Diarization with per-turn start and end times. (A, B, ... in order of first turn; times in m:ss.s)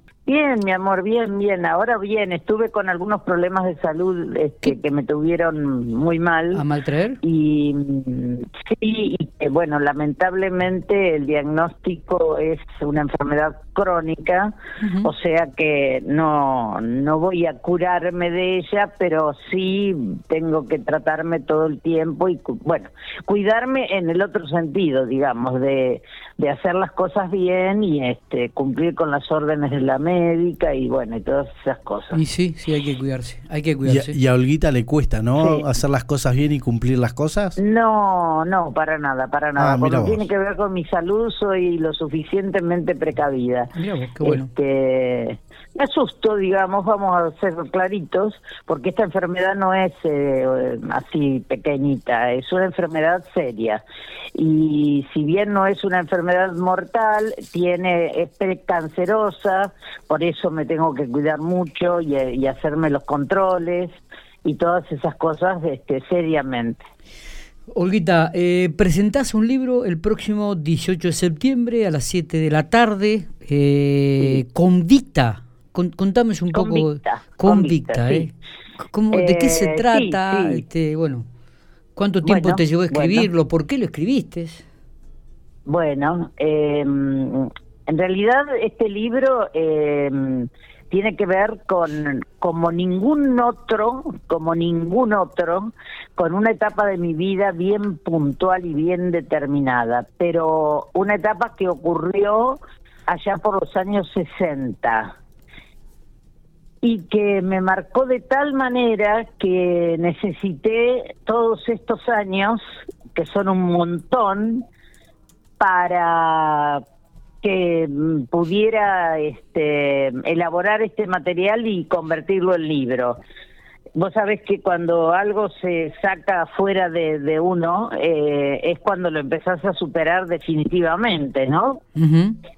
0:00.3-0:06.6 A
0:06.5-0:07.2 B
0:07.2-0:32.2 A
0:14.8-0:15.1 B
0:32.1-0:34.2 B
0:33.8-0:37.6 C
0:35.4-0:35.6 A
0:37.6-0:43.7 A
0:39.6-0:40.2 C
0:43.7-0:44.5 B
0:44.2-0:53.8 A
0:54.4-1:03.9 A
1:04.4-1:06.8 A
1:07.7-1:18.3 B
1:16.5-1:18.3 A
1:18.8-1:21.3 B
1:19.1-1:20.6 A
1:22.0-1:24.6 B
1:22.2-1:23.3 A
1:25.7-1:45.2 A
1:46.8-1:52.6 A
1:53.1-1:54.7 A
1:55.6-1:56.8 A
1:57.4-2:03.2 A
2:04.0-2:11.8 A
2:12.0-2:12.4 B